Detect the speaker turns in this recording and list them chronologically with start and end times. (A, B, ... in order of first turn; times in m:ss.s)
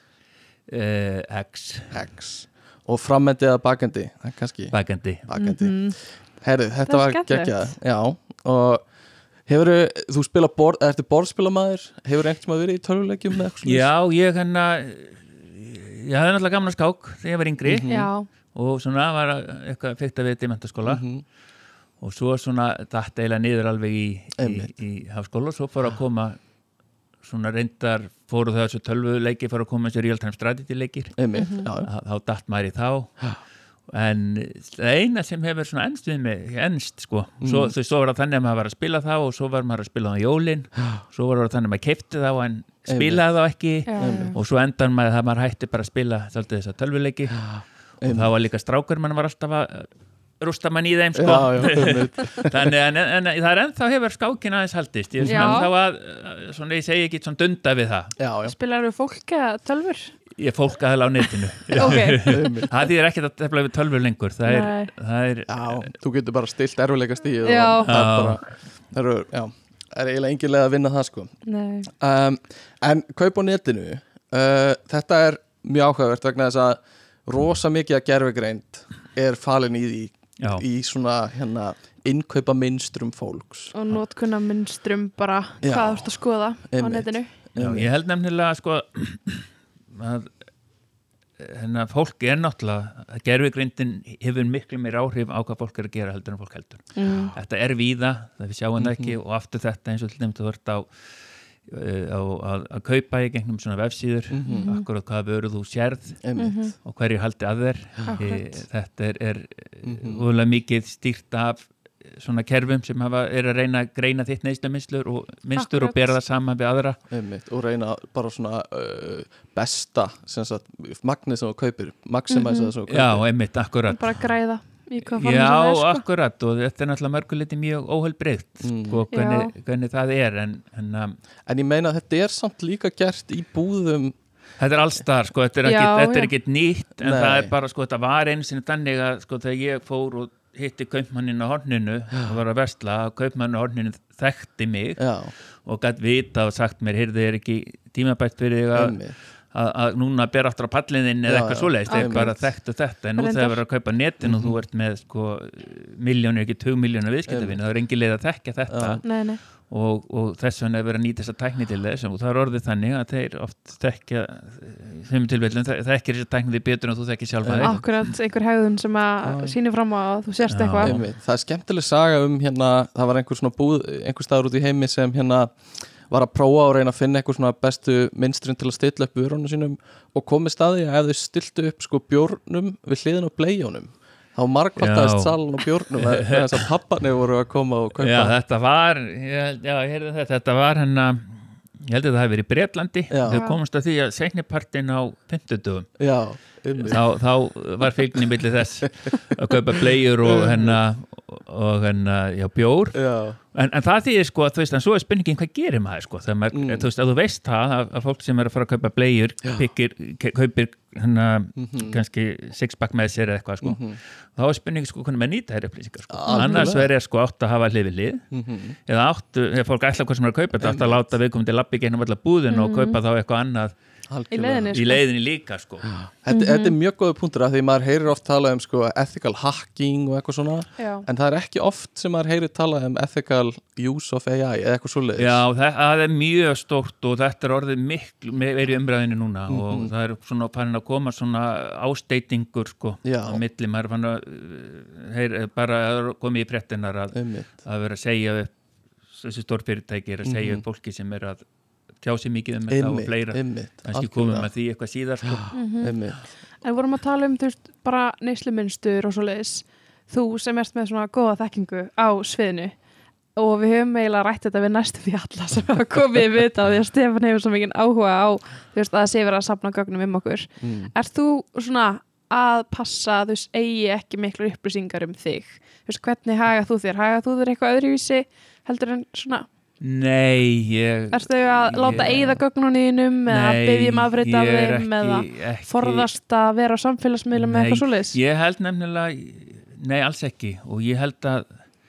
0:00.7-0:01.9 A
0:01.9-0:08.8 B
0:04.7-0:05.2 A
0:05.4-0:06.0 C
0:06.9-0:07.7 C
0:09.5-0:13.9 B
0:13.6-0:17.9 A
0:17.6-0:18.1 B
0:17.9-0:18.3 C
0:18.5-0:21.0 A
0:20.8-0:21.2 B
0:22.0-0:26.4 A
0:24.4-0:24.7 B
0:27.2-0:31.2 A
0:31.2-0:31.9 B
0:31.3-0:31.7 C
0:31.8-0:33.4 A
0:33.9-0:58.1 A
0:37.4-0:37.7 B
0:42.9-0:43.2 B
0:43.9-0:44.3 C
0:44.0-0:44.3 B
0:48.0-0:48.3 B
0:51.1-0:52.7 B
0:55.2-0:55.7 B
0:55.3-0:55.7 C
0:58.2-0:58.5 B
0:58.4-1:00.1 C
1:00.4-1:05.9 A
1:01.7-1:02.5 C
1:01.9-1:02.7 B
1:04.4-1:04.9 C
1:05.5-1:23.7 B
1:07.4-1:08.0 C
1:07.8-1:08.4 A
1:11.4-1:11.9 C
1:20.4-1:20.6 A
1:23.7-1:27.3 C
1:25.6-1:27.9 B
1:27.6-1:30.3 A
1:31.4-1:46.2 A
1:36.9-1:37.3 C
1:38.8-1:39.2 B
1:44.3-1:44.7 B
1:44.4-1:44.8 C
1:46.2-1:46.7 B
1:46.4-1:46.7 C
1:46.8-1:57.0 A
1:48.0-1:48.6 C
1:49.8-1:50.2 B
1:55.5-1:56.1 C
1:57.1-2:03.2 B
2:02.3-2:02.7 C
2:02.9-2:04.2 A
2:03.9-2:06.0 C
2:05.0-2:11.2 A
2:08.6-2:09.0 B
2:09.1-2:09.5 C
2:11.4-2:14.2 B
2:14.6-2:47.8 A
2:15.6-2:16.3 C
2:17.0-2:17.5 B
2:25.0-2:25.3 B
2:28.7-2:29.2 B
2:31.2-2:32.4 B
2:31.9-2:32.4 C
2:33.2-2:33.6 C
2:34.2-2:34.6 B
2:37.3-2:37.6 B
2:38.7-2:39.0 B
2:39.0-2:39.4 C
2:47.4-2:47.9 B
2:47.6-2:51.0 C
2:49.2-2:49.6 B
2:50.5-2:51.0 A
2:50.8-3:08.4 B
3:04.8-3:06.7 A
3:08.0-3:15.9 A
3:13.1-3:13.4 B
3:13.3-3:13.6 C
3:16.0-3:17.0 B
3:16.8-3:23.0 A
3:20.2-3:20.8 B
3:22.9-3:23.4 B
3:23.5-3:38.3 A
3:26.5-3:26.9 B
3:31.6-3:32.0 B
3:33.6-3:34.0 B
3:36.1-3:36.9 B
3:36.3-3:36.7 C
3:38.3-3:38.8 B
3:38.8-3:43.7 A
3:40.6-3:41.0 B
3:42.5-3:43.0 C
3:44.1-3:44.7 B
3:44.3-3:45.0 C
3:44.7-3:46.0 A
3:46.0-3:55.4 B
3:46.3-3:46.7 C
3:50.8-3:51.1 C
3:55.2-4:08.5 A
3:59.5-3:59.9 B
4:03.0-4:03.4 B
4:07.1-4:07.5 B
4:09.1-4:11.4 A
4:10.2-4:10.6 B
4:12.0-4:15.5 A
4:12.7-4:14.5 B
4:15.3-4:16.3 B
4:15.5-4:22.8 C
4:23.3-4:39.5 C
4:30.6-4:30.9 B
4:39.8-4:42.4 A
4:41.1-4:48.2 C
4:43.3-4:46.1 A
4:47.3-4:51.6 A